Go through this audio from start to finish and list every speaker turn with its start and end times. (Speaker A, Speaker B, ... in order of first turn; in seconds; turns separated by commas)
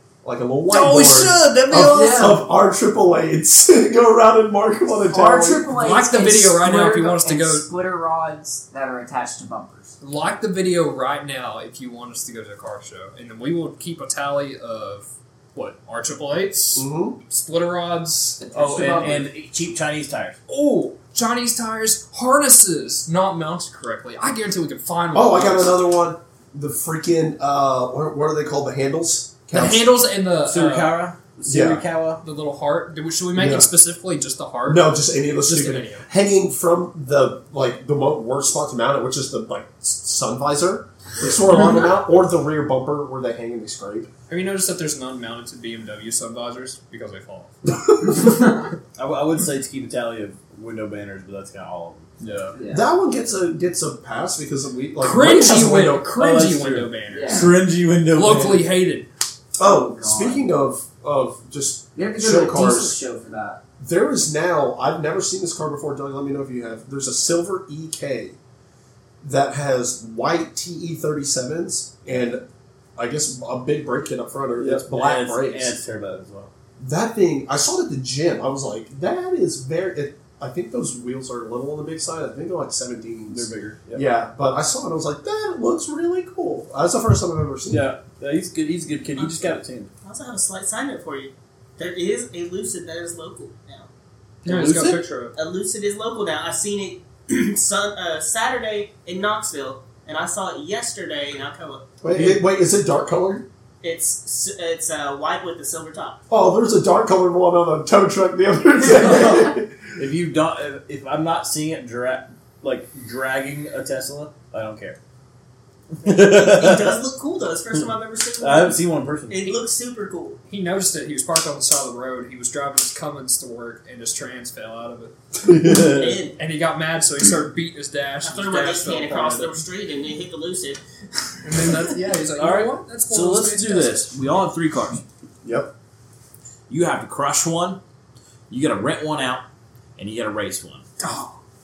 Speaker A: 0.2-5.7, Speaker B: 0.7-2.4, Speaker C: 1.7-2.4, Speaker C: 5.0-10.0, Speaker B: 5.7-7.7, Speaker B: 10.0-18.4, Speaker A: 16.7-17.2, Speaker C: 18.4-19.3, Speaker D: 18.5-20.4, Speaker B: 20.5-25.8, Speaker A: 25.1-30.0, Speaker B: 29.5-31.0, Speaker D: 30.4-32.2, Speaker A: 31.5-31.8, Speaker B: 32.2-36.1, Speaker A: 33.3-33.7, Speaker A: 34.6-44.1, Speaker B: 44.3-47.7, Speaker A: 47.9-48.3, Speaker D: 49.0-52.5, Speaker C: 52.5-52.9, Speaker A: 52.6-56.1, Speaker B: 55.0-59.1, Speaker D: 56.1-58.7, Speaker C: 57.1-57.5, Speaker A: 59.6-63.0, Speaker C: 59.6-60.5, Speaker C: 61.9-63.6, Speaker A: 63.8-68.3, Speaker A: 69.2-72.4, Speaker A: 73.0-75.8, Speaker D: 74.6-76.5, Speaker A: 76.8-87.9, Speaker D: 83.3-84.0, Speaker D: 87.7-89.9, Speaker E: 89.2-93.9, Speaker B: 94.4-95.3, Speaker D: 94.4-95.0, Speaker E: 95.3-101.9, Speaker A: 102.0-103.5, Speaker D: 102.1-102.4, Speaker E: 103.8-106.2, Speaker A: 106.3-109.9, Speaker D: 110.0-115.0, Speaker D: 116.0-117.0, Speaker E: 116.0-118.8, Speaker D: 117.7-119.6, Speaker E: 119.3-120.4, Speaker B: 120.5-125.1, Speaker D: 125.4-126.2, Speaker E: 125.8-126.4, Speaker B: 126.4-129.6, Speaker E: 128.2-131.9, Speaker B: 131.4-134.1, Speaker D: 132.4-135.0, Speaker A: 135.4-135.7, Speaker D: 136.7-137.8, Speaker D: 138.5-139.4, Speaker D: 140.0-140.8